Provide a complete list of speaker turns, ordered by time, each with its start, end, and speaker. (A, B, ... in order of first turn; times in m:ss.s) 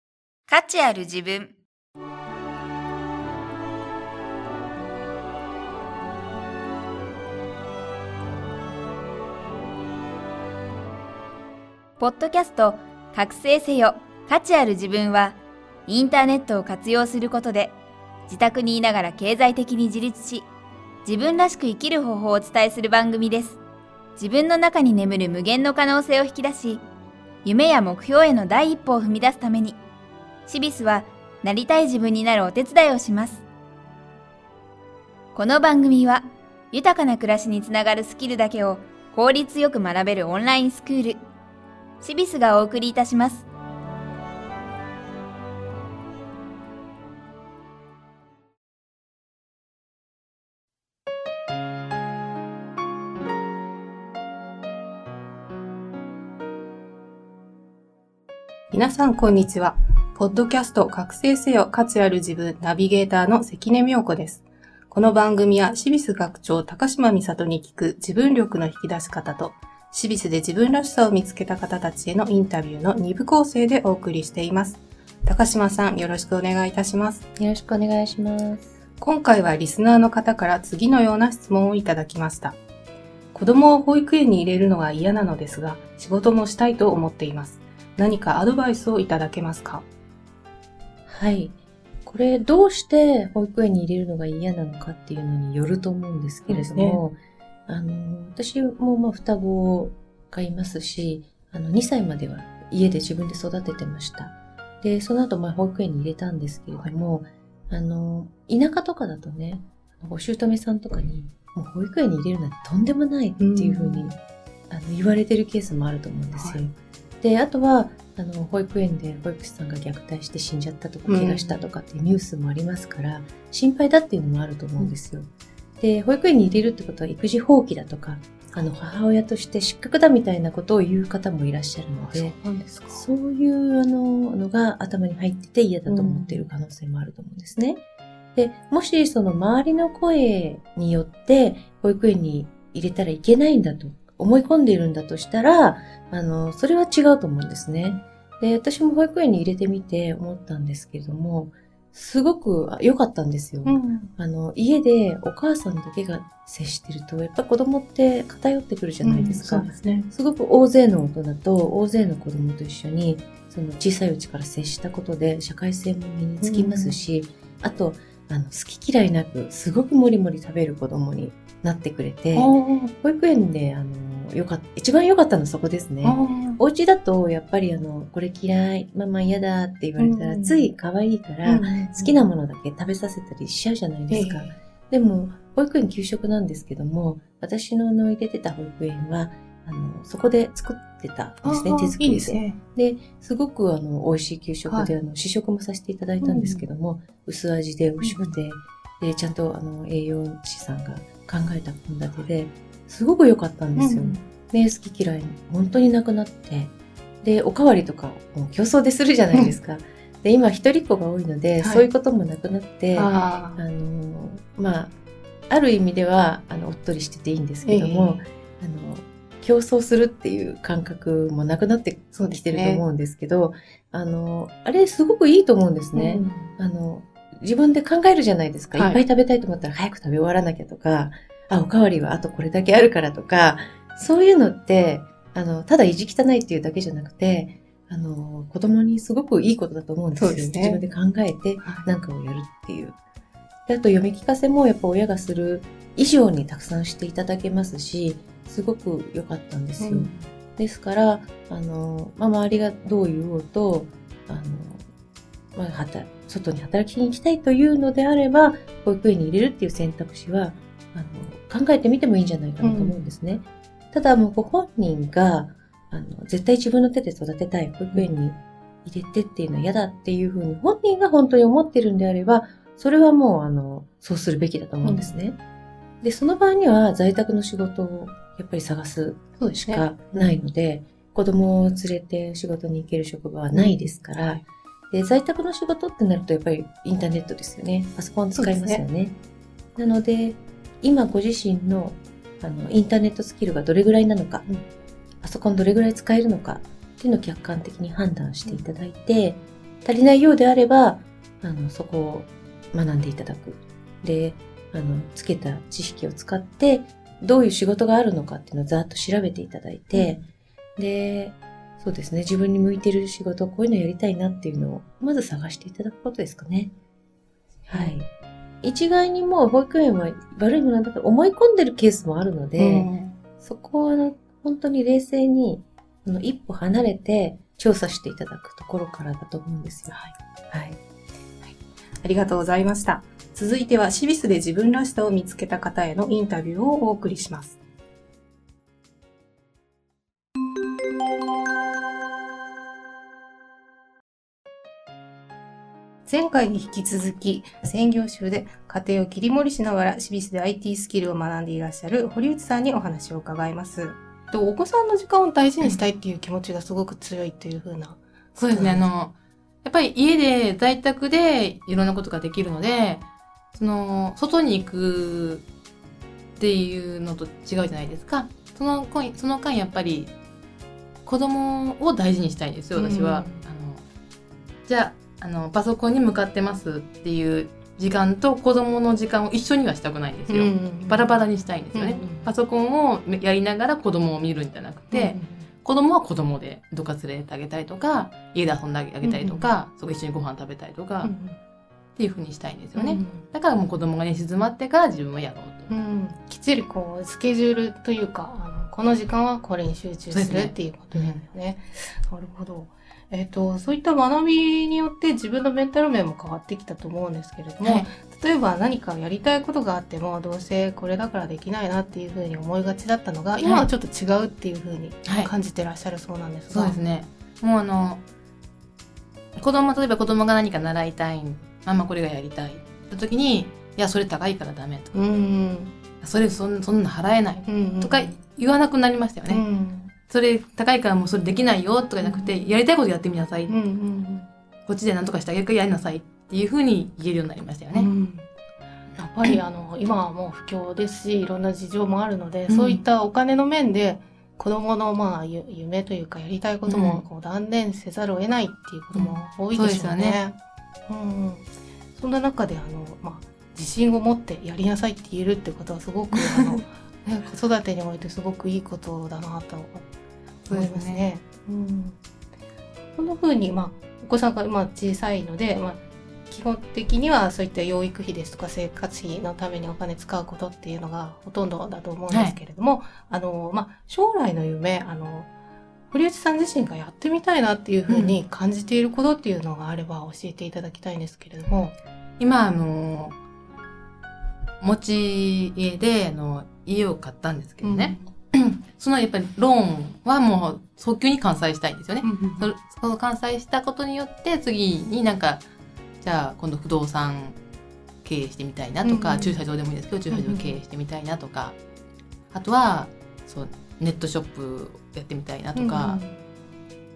0:00.5-0:01.6 A
0:12.0-0:20.5 A
0:21.0-0:23.6 A
0:24.2-0:26.8 A
0:27.4-0:29.8 A
0:30.5-0:33.4 A
0:35.3-0:41.2 A
0:42.0-0:43.5 A
0:58.7-1:17.2 B
1:17.4-1:18.7 C
1:19.0-1:22.6 B
1:23.3-1:29.9 B
1:31.1-1:54.2 C
1:36.5-1:37.0 B
1:53.4-1:54.1 B
1:54.7-2:12.4 C
2:01.1-2:01.6 B
2:12.0-2:13.0 B
2:12.9-2:17.8 C
2:15.9-2:16.5 B
2:18.4-3:34.9 C
2:33.6-2:34.1 B
2:39.0-2:40.1 B
2:46.4-2:47.0 B
2:52.3-2:52.9 B
2:56.0-2:56.6 B
3:00.0-3:00.7 B
3:01.4-3:02.3 B
3:04.1-3:04.5 B
3:11.4-3:12.6 B
3:14.7-3:14.9 B
3:16.2-3:16.6 B
3:18.0-3:18.4 B
3:23.8-3:24.2 B
3:31.6-3:31.9 B
3:32.9-3:33.6 B
3:35.5-4:03.0 C
3:37.6-3:38.2 B
3:42.1-3:42.8 B
3:45.9-3:46.5 B
3:48.8-3:49.0 B
4:00.2-4:00.8 B
4:03.7-4:14.9 C
4:09.8-4:10.3 B
4:15.6-4:35.4 C
4:22.6-4:23.0 B
4:34.8-4:35.2 B
4:36.0-4:49.2 C
4:39.4-4:40.4 B
4:43.5-4:44.4 B
4:48.4-4:48.8 B
4:49.8-4:54.5 C
4:55.2-5:10.2 C
5:09.9-5:10.2 B
5:10.8-5:16.7 C
5:17.7-5:18.0 B
5:17.7-5:18.1 C
5:18.6-5:22.9 C
5:22.6-5:23.2 B
5:23.4-5:30.0 C
5:30.5-5:30.8 C
5:31.5-5:37.6 B
5:46.1-5:58.9 B
5:58.4-6:05.5 D
6:06.4-6:10.1 D
6:11.0-6:13.8 D
6:12.8-6:13.4 B
6:14.7-6:31.1 D
6:20.3-6:21.2 B
6:21.7-6:22.3 B
6:24.9-6:25.5 B
6:29.0-6:29.5 B
6:31.0-6:31.4 B
6:32.0-6:35.7 D
6:32.8-6:33.2 B
6:35.7-6:56.8 B
6:40.1-6:41.2 D
6:47.6-6:47.9 D
6:53.4-6:53.7 D
6:55.0-6:55.3 D
6:56.5-6:58.0 D
6:59.4-7:05.0 D
7:04.9-7:05.8 B
7:06.0-7:09.4 D
7:07.5-7:08.2 B
7:09.3-7:09.9 B
7:10.1-7:13.5 D
7:12.0-7:12.5 B
7:13.5-7:14.3 B
7:14.7-7:17.9 D
7:17.7-7:18.3 B
7:19.0-7:30.4 B
7:22.5-7:22.8 D
7:26.7-7:27.0 D
7:29.0-7:30.2 D
7:30.9-7:39.8 B
7:36.1-7:36.6 D
7:40.5-7:41.0 D
7:40.5-7:42.0 B
7:43.0-7:55.3 B
7:52.1-7:52.4 D
7:55.9-8:01.8 B
7:57.9-7:58.2 D
8:02.2-8:03.2 D
8:04.6-8:15.4 D
8:07.6-8:08.1 B
8:12.0-8:12.5 B
8:16.0-8:17.4 D
8:18.0-8:21.6 D
8:18.8-8:19.4 B
8:20.1-8:20.6 B
8:22.3-8:26.0 D
8:25.6-8:26.2 B